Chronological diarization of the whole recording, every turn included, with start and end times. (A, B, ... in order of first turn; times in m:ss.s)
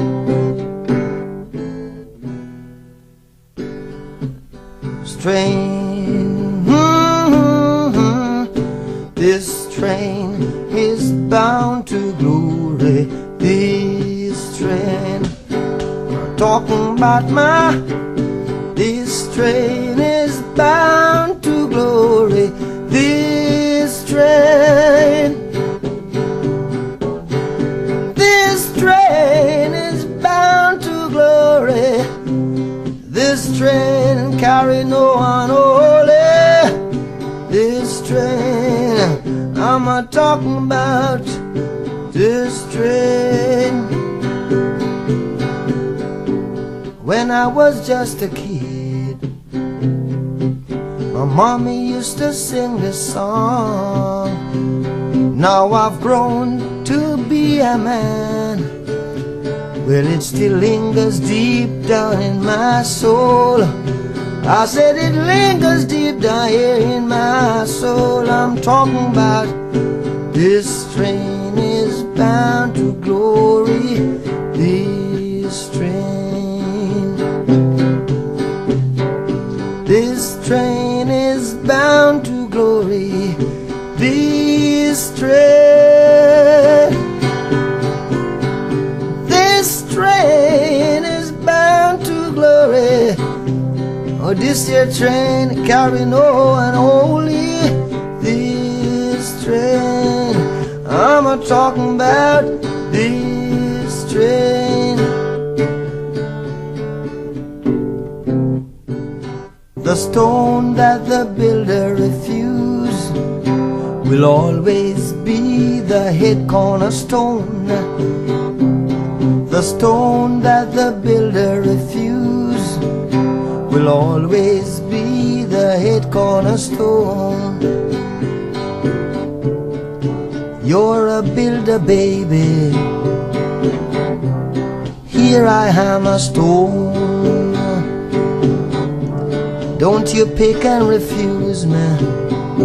0:05.0-0:08.5 A
0:09.2-0:15.3 A
0:16.4-0:17.8 A
0:18.8-0:25.4 A
0:28.1-0:32.1 A
0:33.0-0:36.8 A
0:37.5-0:41.4 A
0:42.1-0:43.9 A
0:47.0-0:49.2 A
0:51.1-0:54.4 A
0:55.3-0:58.7 A
0:59.8-1:03.7 A
1:04.4-1:09.6 A
1:10.3-1:17.2 A
1:19.9-1:23.4 A
1:24.0-1:26.9 A
1:29.2-1:33.2 A
1:34.2-1:45.1 A
1:49.8-1:53.2 A
1:54.0-1:57.8 A
1:59.5-2:02.8 A
2:03.7-2:07.6 A
2:10.6-2:12.9 A
2:15.1-2:17.8 A
2:19.8-2:22.0 A